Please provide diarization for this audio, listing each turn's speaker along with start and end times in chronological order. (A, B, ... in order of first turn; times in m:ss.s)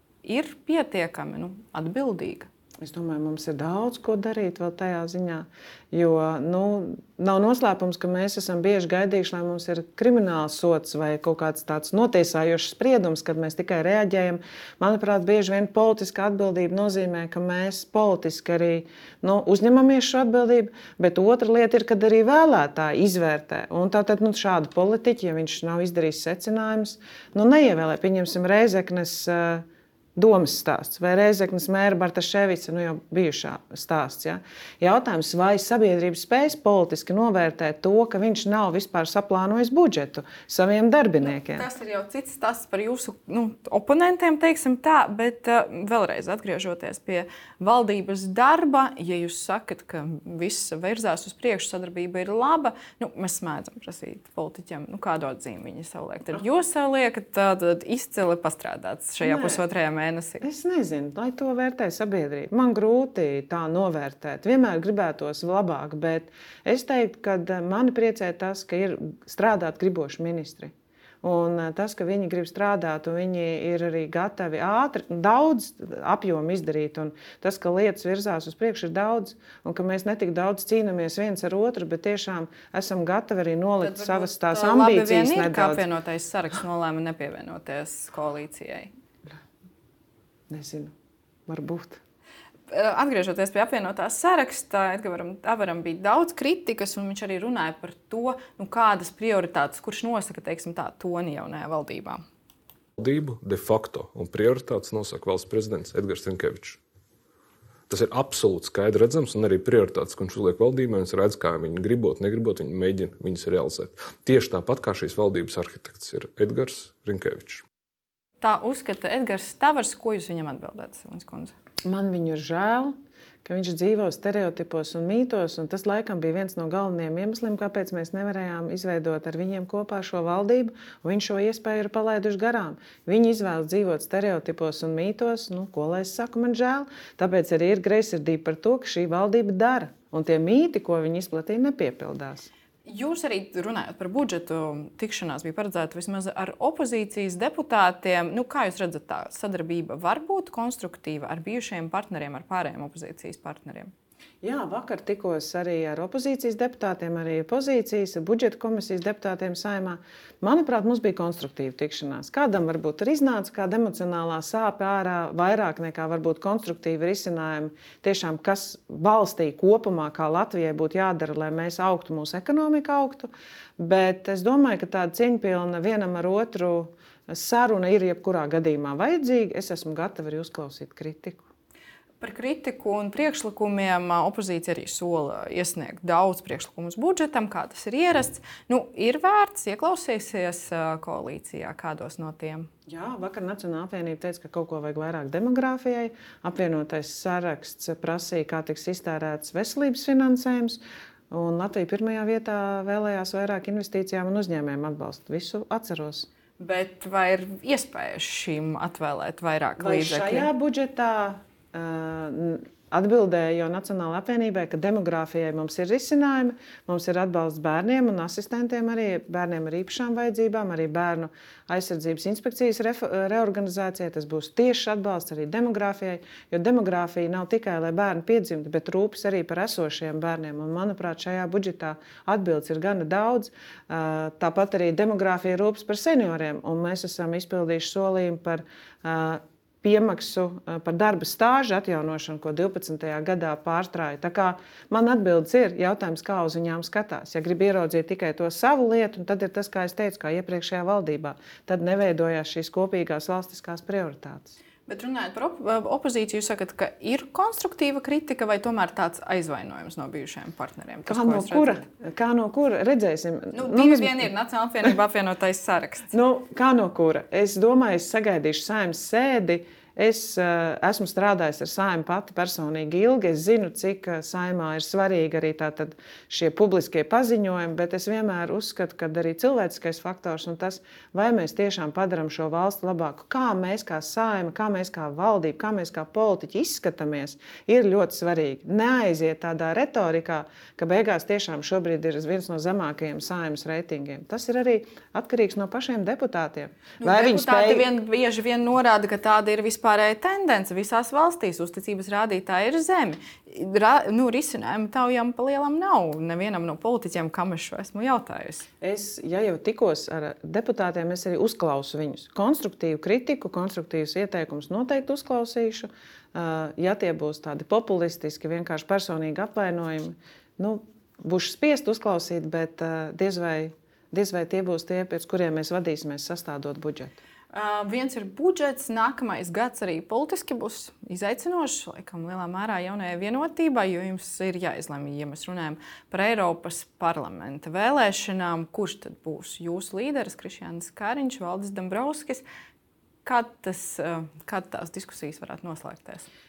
0:00.2-0:02.5 A
0:02.8-0:29.6 B
0:30.2-0:41.7 B
0:41.2-1:00.4 A
0:59.2-0:59.6 B
1:00.4-1:25.8 B
1:23.8-1:28.9 A
1:30.5-1:30.9 B
1:31.5-1:32.0 B
1:32.7-1:42.2 A
1:43.0-1:46.8 C
1:47.9-1:57.6 C
1:58.4-2:01.5 A
2:01.8-2:02.9 B
2:03.4-2:22.5 B
2:22.9-2:33.9 A
2:34.4-3:01.4 B
3:02.2-3:12.7 A
3:12.9-3:20.8 B
3:21.3-3:26.3 B
3:26.6-3:30.5 A
3:29.8-4:14.6 B
4:14.9-4:21.8 A
4:21.1-4:24.3 B
4:23.5-4:26.1 A
4:26.1-4:58.0 B
4:57.0-5:08.7 A
5:08.8-5:27.2 B
5:27.5-5:42.4 A
5:43.2-5:46.3 A